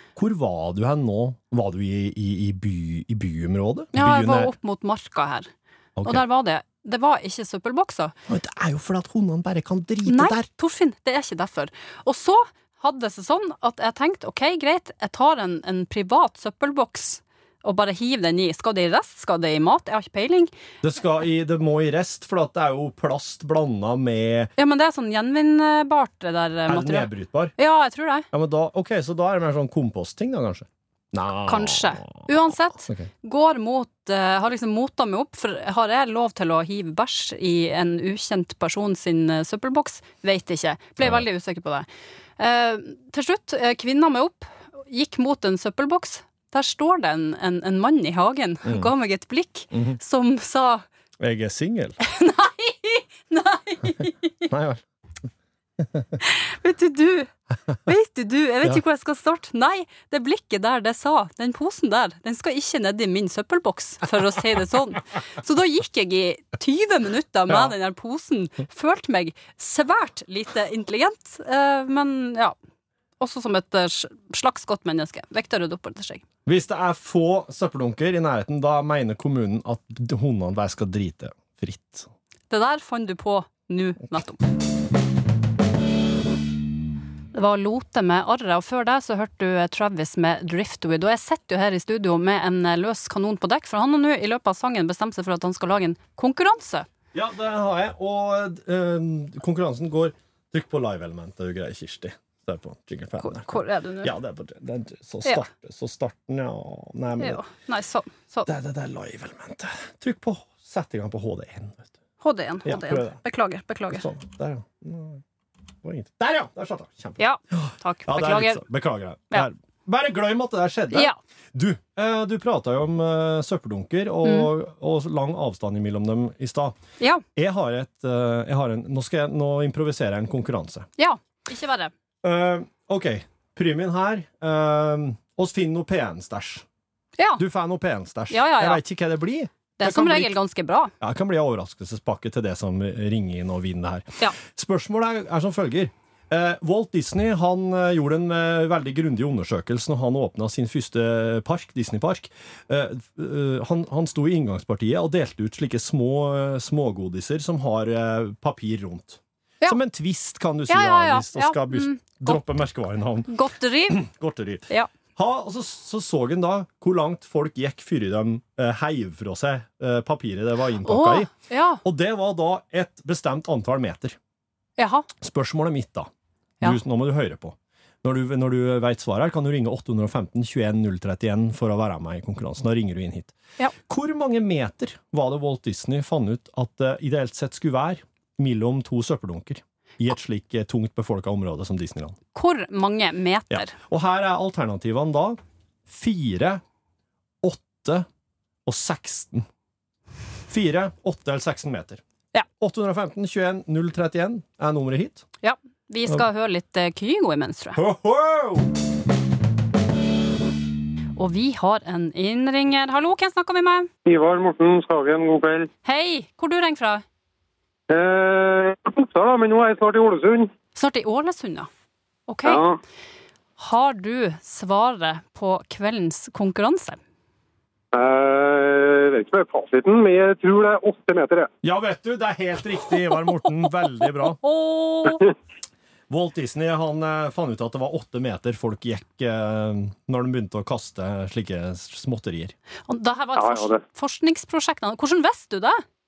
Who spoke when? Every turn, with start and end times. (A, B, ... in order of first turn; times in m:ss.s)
0:00.2-0:04.6 A
0:03.9-0:05.5 B
0:06.0-0:06.2 A
0:06.0-0:08.2 B
0:08.3-0:10.5 A
0:10.0-0:20.5 B
0:20.8-0:24.5 A
0:24.6-0:28.3 B
0:26.7-0:27.6 A
0:28.3-0:33.1 A
0:31.5-0:41.9 B
0:41.0-0:41.2 A
0:42.4-0:50.8 B
0:48.6-0:48.9 A
0:49.7-0:50.0 A
0:51.2-0:52.0 A
0:52.0-0:54.5 B
0:54.5-0:54.8 A
0:56.2-1:12.6 B
1:07.5-1:07.7 A
1:13.2-1:16.2 B
1:16.5-1:22.1 A
1:22.5-1:24.4 B
1:27.3-1:36.9 B
1:37.1-1:47.4 A
1:43.2-1:44.1 B
1:47.2-1:48.5 B
1:48.5-1:51.9 A
1:52.2-1:54.1 B
1:52.6-1:53.2 A
1:53.9-1:55.2 A
1:55.8-2:06.8 A
1:57.2-1:58.6 B
2:00.9-2:01.2 B
2:04.2-2:04.5 B
2:07.0-2:07.2 B
2:07.4-2:10.9 A
2:11.0-2:11.9 B
2:12.2-2:16.6 A
2:17.4-2:20.4 A
2:18.3-2:18.8 B
2:19.8-2:20.9 B
2:21.0-2:43.3 A
2:40.7-2:42.4 B
2:43.3-2:44.0 B
2:43.9-2:51.3 A
2:50.8-2:51.8 B
2:51.8-2:54.2 A
2:54.8-2:55.1 B
2:55.2-2:56.1 A
2:56.6-3:12.2 A
3:12.3-3:13.8 B
3:13.5-3:16.6 A
3:17.4-3:18.1 A
3:18.7-3:19.5 A
3:20.5-3:22.0 A
3:22.6-3:25.3 A
3:25.4-3:27.8 B
3:27.8-3:28.7 A
3:31.2-3:33.9 B
3:34.1-3:35.7 C
3:35.8-3:37.0 B
3:37.9-3:40.5 C
3:40.7-3:41.7 B
3:42.3-3:42.6 B
3:42.5-3:42.8 C
3:43.6-3:47.0 B
3:47.9-3:51.5 C
3:51.6-3:54.4 A
3:54.0-3:55.2 B
3:56.1-4:02.5 A
4:02.9-4:05.8 B
4:03.4-4:03.8 C